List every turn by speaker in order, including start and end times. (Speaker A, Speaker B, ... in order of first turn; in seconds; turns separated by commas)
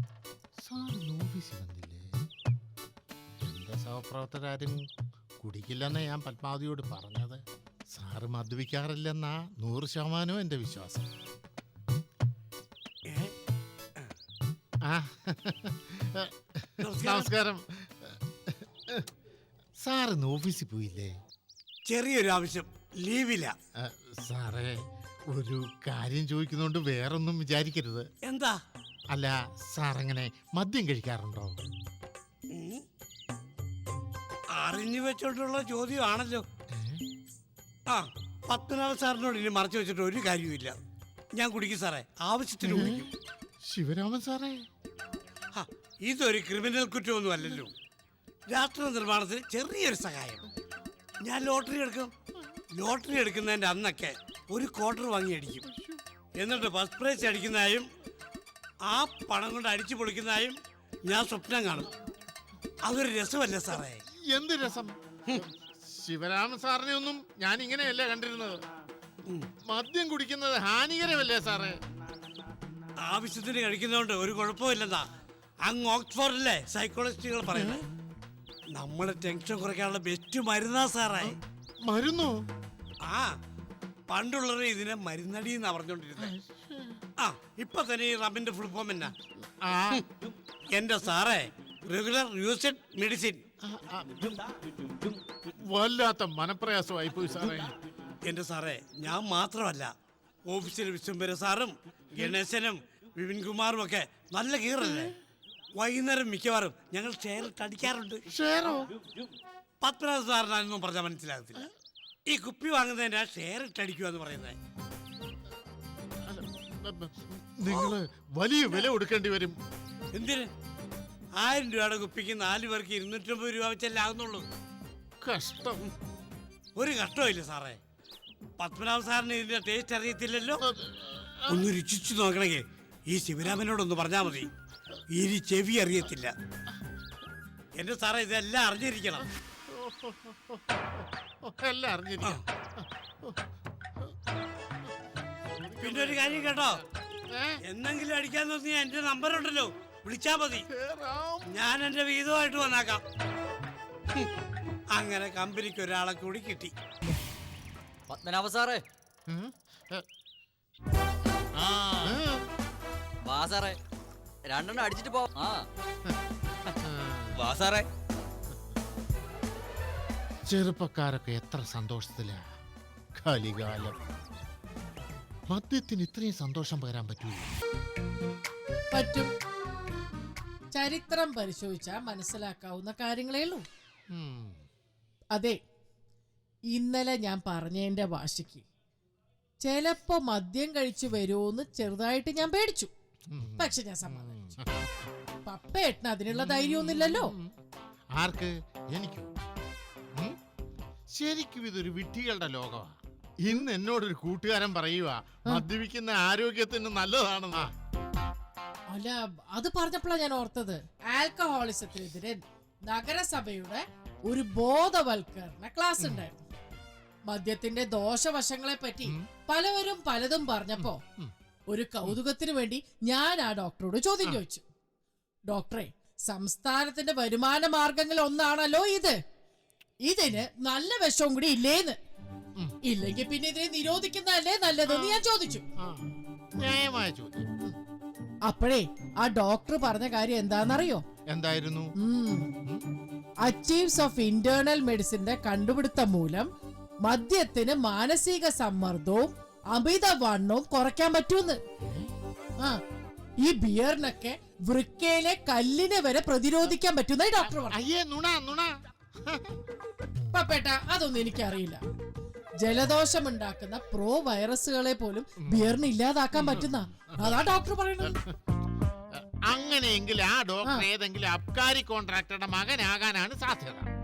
Speaker A: 0.6-2.2, Speaker A: 3.4-4.9, Speaker A: 5.4-11.1, Speaker B: 13.1-13.3, Speaker A: 14.8-19.1, Speaker B: 16.8-17.3, Speaker A: 19.8-21.2, Speaker B: 21.9-23.5, Speaker A: 23.8-24.8, Speaker A: 25.3-28.1, Speaker B: 28.2-28.6, Speaker A: 29.1-31.6, Speaker B: 32.5-32.8, Speaker B: 34.5-36.4, Speaker A: 36.7-37.0, Speaker B: 37.9-40.8, Speaker B: 41.4-43.1, Speaker A: 42.6-44.7, Speaker B: 45.5-47.7, Speaker B: 48.5-50.5, Speaker B: 51.2-52.1, Speaker B: 52.8-55.7, Speaker A: 55.7-56.0, Speaker B: 56.4-57.9, Speaker B: 58.9-61.9, Speaker B: 62.8-64.0, Speaker A: 64.1-68.6, Speaker A: 69.7-71.8, Speaker B: 73.0-75.1, Speaker B: 75.6-77.9, Speaker A: 77.5-77.8, Speaker B: 78.7-81.4, Speaker A: 81.2-82.4, Speaker B: 83.0-83.3, Speaker B: 84.1-86.3, Speaker A: 86.2-87.0, Speaker B: 87.2-89.1, Speaker A: 89.4-90.0, Speaker B: 90.7-93.4, Speaker A: 93.6-94.4, Speaker A: 95.6-97.7, Speaker B: 98.2-99.9, Speaker B: 100.5-105.2, Speaker A: 104.8-105.2, Speaker B: 105.8-108.2, Speaker A: 108.3-108.9, Speaker B: 109.8-111.7, Speaker B: 112.3-114.6, Speaker A: 116.2-119.6, Speaker B: 120.1-120.5, Speaker B: 121.4-124.5, Speaker A: 125.2-125.8, Speaker B: 126.8-127.8, Speaker B: 128.6-130.6, Speaker A: 130.6-131.7, Speaker B: 131.5-134.5, Speaker B: 135.2-136.3, Speaker B: 137.8-139.3, Speaker A: 139.7-143.4, Speaker A: 145.6-147.6, Speaker B: 145.8-146.8, Speaker B: 147.7-150.7, Speaker A: 150.7-151.6, Speaker B: 151.5-153.0, Speaker B: 154.9-156.7, Speaker C: 158.1-158.8, Speaker A: 159.3-160.1, Speaker C: 161.7-162.2, Speaker A: 162.0-162.4, Speaker C: 163.2-163.8, Speaker C: 164.4-165.7, Speaker A: 166.8-167.4, Speaker C: 167.3-167.9, Speaker A: 170.5-172.4, Speaker A: 173.2-174.0, Speaker A: 175.5-177.6, Speaker D: 178.9-179.3, Speaker D: 180.7-183.7, Speaker A: 184.1-184.6, Speaker D: 186.7-188.7, Speaker D: 189.6-192.9, Speaker A: 193.3-194.9, Speaker D: 193.6-194.4, Speaker D: 195.4-197.3, Speaker A: 196.3-197.6, Speaker A: 198.1-199.3, Speaker A: 201.1-207.7, Speaker D: 208.9-216.4, Speaker A: 216.0-216.3, Speaker D: 217.3-221.0, Speaker A: 220.8-221.3, Speaker D: 221.7-224.6, Speaker D: 225.5-229.2, Speaker D: 230.0-232.0, Speaker D: 232.8-235.6, Speaker A: 234.9-235.2, Speaker A: 235.8-237.5, Speaker D: 238.4-241.0, Speaker A: 241.3-241.9, Speaker D: 242.0-242.5, Speaker D: 243.4-246.5, Speaker D: 247.0-251.6, Speaker A: 251.8-252.1, Speaker D: 253.4-257.8, Speaker A: 257.4-259.6, Speaker D: 260.3-261.8, Speaker D: 262.6-268.2, Speaker A: 265.4-265.8, Speaker A: 266.3-267.5, Speaker A: 269.1-273.9